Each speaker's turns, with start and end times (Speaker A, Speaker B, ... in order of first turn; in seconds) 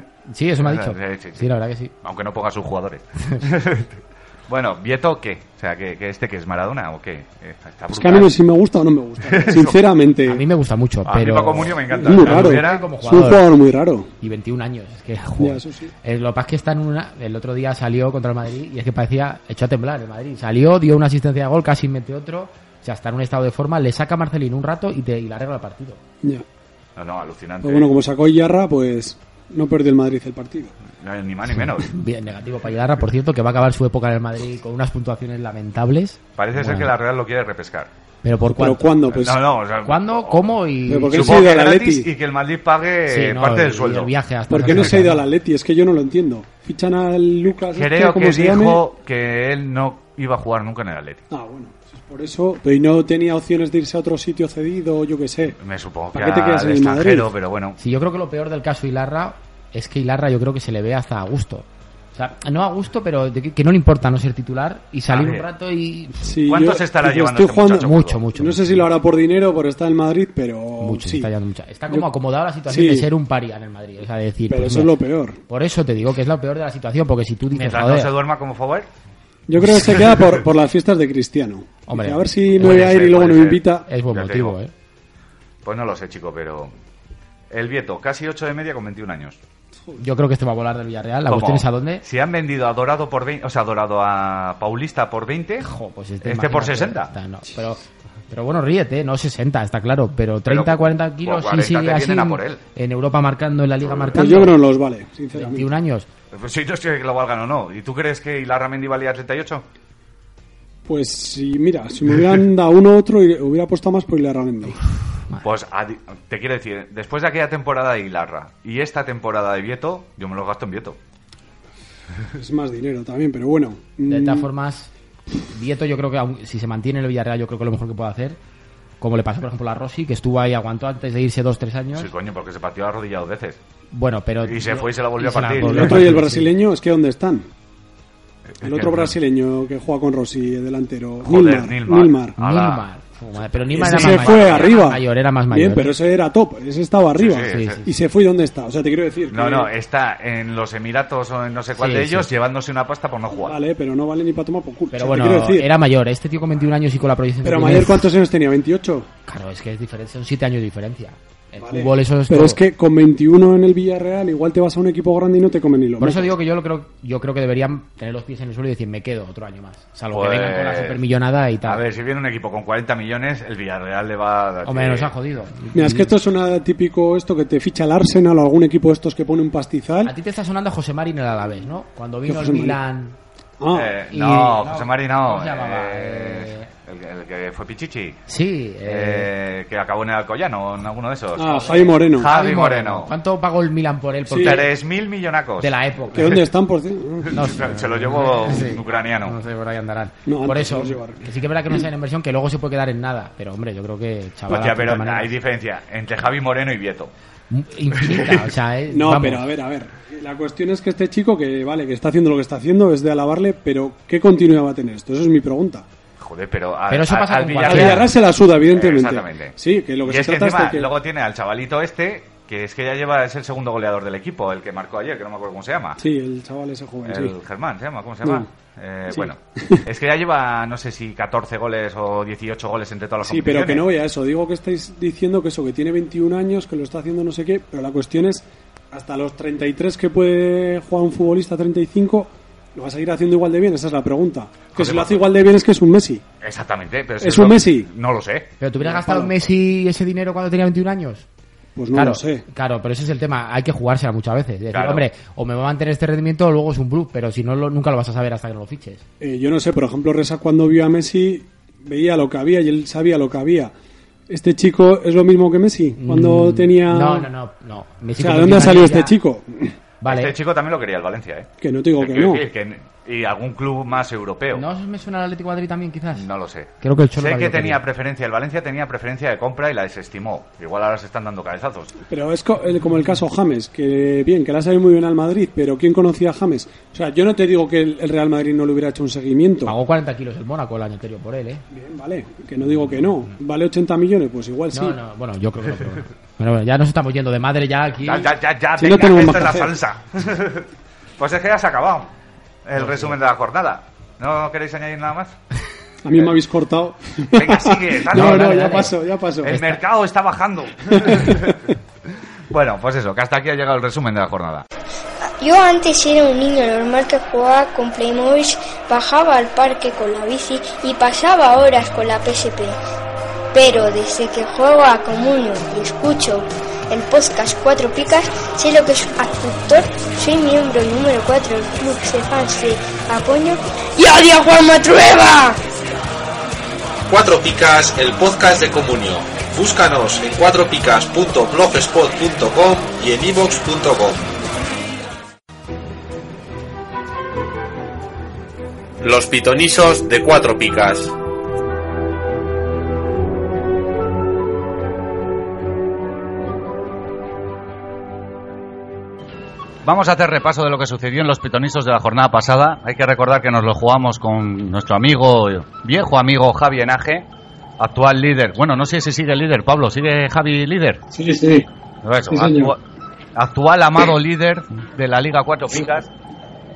Speaker A: 0.3-1.9, 10.2-13.4, 14.2-26.0, 31.6-36.9, 38.2-39.0, 39.8-41.4, 43.1-45.2, 57.8-66.2, 67.8-68.8, 70.8-75.0, 75.5-78.1, 81.9-83.0, 83.9-84.7, 90.0-92.0, 95.6-104.5, 105.3-106.1, 124.1-124.9, 125.5-128.4, 129.0-132.1, 133.9-136.5, 142.4-145.9, 147.4-147.9, 151.8-152.3, 154.9-158.1, 159.3-162.6, 166.0-171.8, 174.7-176.1, 180.0-183.2, 184.1-186.7, 188.3-189.3, 191.5-194.7, 195.6-196.4, 197.3-205.3, 207.5-209.5, 216.9-218.1, 248.6-251.2, 251.9-259.0, 266.0-269.1, 270.0-270.3, 274.5-276.2, 276.8-277.8, 289.6-291.6, 294.7-298.3, 302.8-303.1, 308.1-308.9
Speaker B: 0.6-8.3, 9.2-9.9, 11.0-12.9, 26.9-27.9, 31.0-31.9, 36.4-37.9, 39.1-40.5, 41.1-44.1, 47.7-51.2, 55.5-57.8, 65.1-65.5, 66.5-68.2, 77.5-78.9, 79.7-80.4, 82.5-84.6, 85.6-86.7, 87.5-89.4, 91.3-95.7, 96.2-97.1, 100.5-102.6, 103.8-104.5, 106.3-109.6, 115.4-121.0, 131.9-133.6, 134.4-136.1, 138.5-139.1, 141.2-142.8, 143.8-144.7, 147.2-147.8, 149.3-153.6, 170.1-171.0, 171.6-175.1, 183.7-188.2, 188.8-193.1, 194.3-196.4, 197.2-199.4, 204.5-207.1, 207.9-208.4, 216.2-226.0, 227.0-233.9, 244.7-245.3, 246.4-248.5, 254.7-255.1, 270.0-274.6, 276.1-281.9, 298.0-302.1, 302.6-305.4, 307.3-308.7, 309.4-311.6, 312.5-314.6, 359.8-367.2, 367.8-371.0, 372.0-372.8, 373.4-376.1
Speaker C: 7.9-10.4, 11.9-14.1, 15.4-15.9, 27.6-30.8, 38.5-39.4, 40.9-42.1, 44.5-48.8, 51.3-55.6, 56.1-57.3, 66.2-71.3, 72.7-73.1, 74.5-75.4, 79.5-83.8, 104.2-105.7, 110.8-114.8, 122.3-124.5, 135.6-137.5, 138.6-142.3, 143.7-149.7, 153.4-155.7, 157.4-159.1, 161.6-166.3, 175.7-180.1, 182.2-182.8, 183.6-183.9, 191.3-192.3, 194.3-194.6, 196.1-197.4, 200.2-201.2, 208.9-215.8, 217.6-220.9, 226.0-227.3, 229.1-229.8, 233.2-246.2, 247.2-247.9, 248.8-249.3, 251.8-252.4, 259.2-263.7, 264.3-267.3, 268.2-269.7, 271.6-272.4, 282.1-289.7, 291.7-295.0, 298.8-299.7, 306.0-309.6, 311.0-311.5, 371.1-371.7, 372.3-372.7
Speaker D: 315.4-322.8, 323.5-335.6
Speaker E: 337.1-344.2, 349.0-351.1